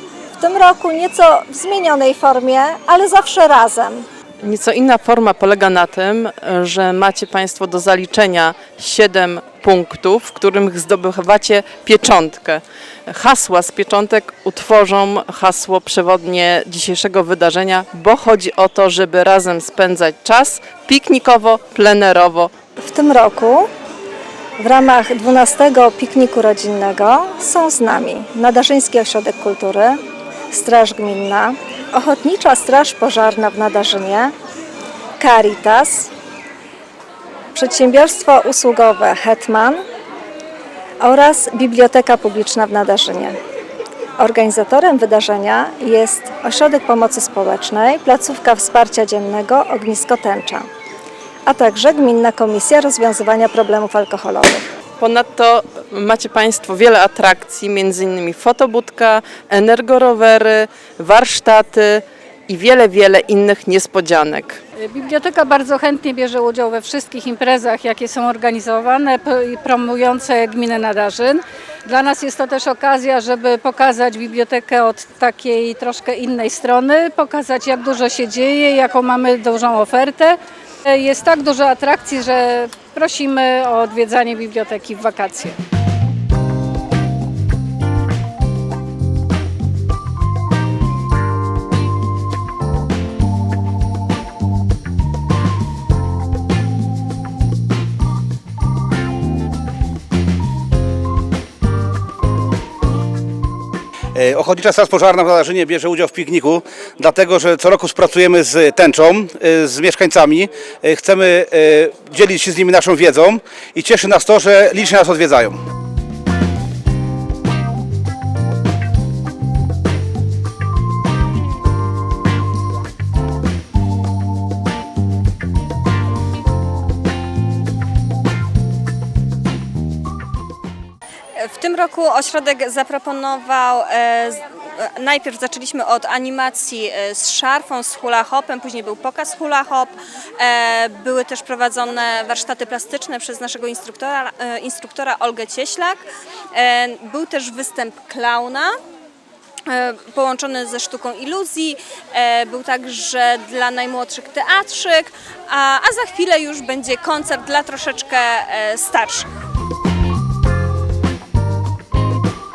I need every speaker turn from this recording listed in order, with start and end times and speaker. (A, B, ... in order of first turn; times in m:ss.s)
0:00.4-0:04.1 A
0:04.4-0:22.5 B
0:22.8-0:23.7 A
0:24.6-0:30.0 A
0:30.5-0:34.3 A
0:35.2-0:36.1 A
0:37.5-0:39.8 A
0:41.0-0:43.4 A
0:44.2-0:50.7 A
0:51.5-0:54.7 A
0:55.0-1:04.6 B
1:04.8-1:20.4 C
1:20.9-1:25.6 C
1:44.2-1:55.6 D
2:11.4-2:26.0 E
2:26.6-2:28.7 E
2:29.7-2:39.3 E